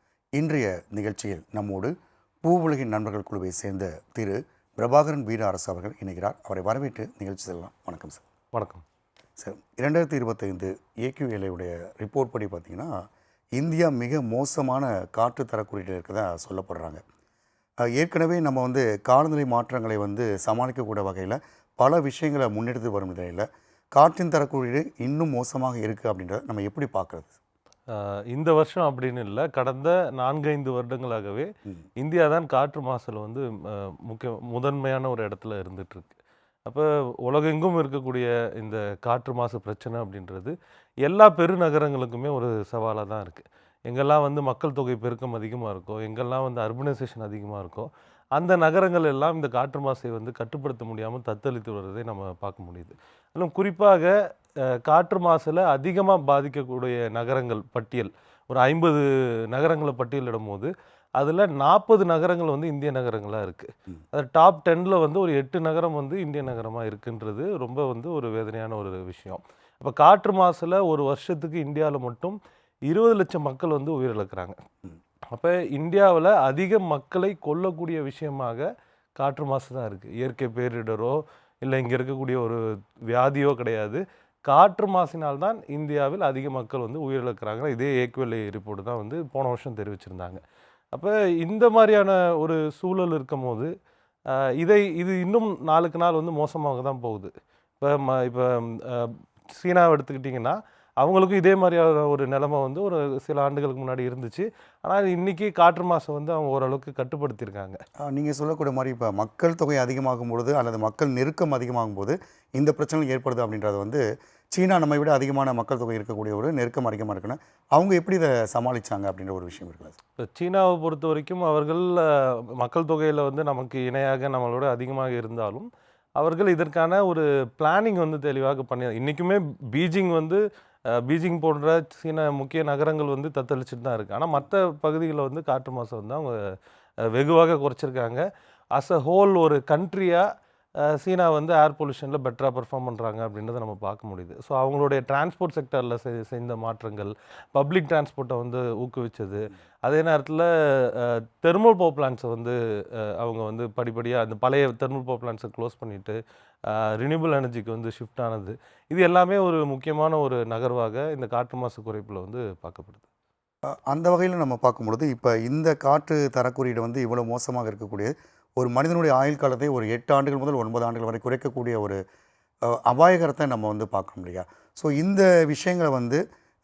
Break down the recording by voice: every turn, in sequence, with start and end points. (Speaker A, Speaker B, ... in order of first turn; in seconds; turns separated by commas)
Speaker A: 0.4-1.9, Speaker A: 2.4-8.2, Speaker B: 8.5-8.8, Speaker A: 9.4-12.9, Speaker A: 13.6-17.0, Speaker A: 17.9-27.3, Speaker B: 27.9-31.5, Speaker B: 32.0-36.1, Speaker B: 36.6-74.5, Speaker B: 75.3-78.7, Speaker B: 79.2-90.4, Speaker B: 90.9-93.7, Speaker B: 94.3-107.8, Speaker A: 108.1-114.0, Speaker A: 114.5-120.0, Speaker B: 120.2-136.4, Speaker B: 137.0-140.2, Speaker B: 140.8-163.0, Speaker A: 163.9-172.0, Speaker A: 172.7-176.2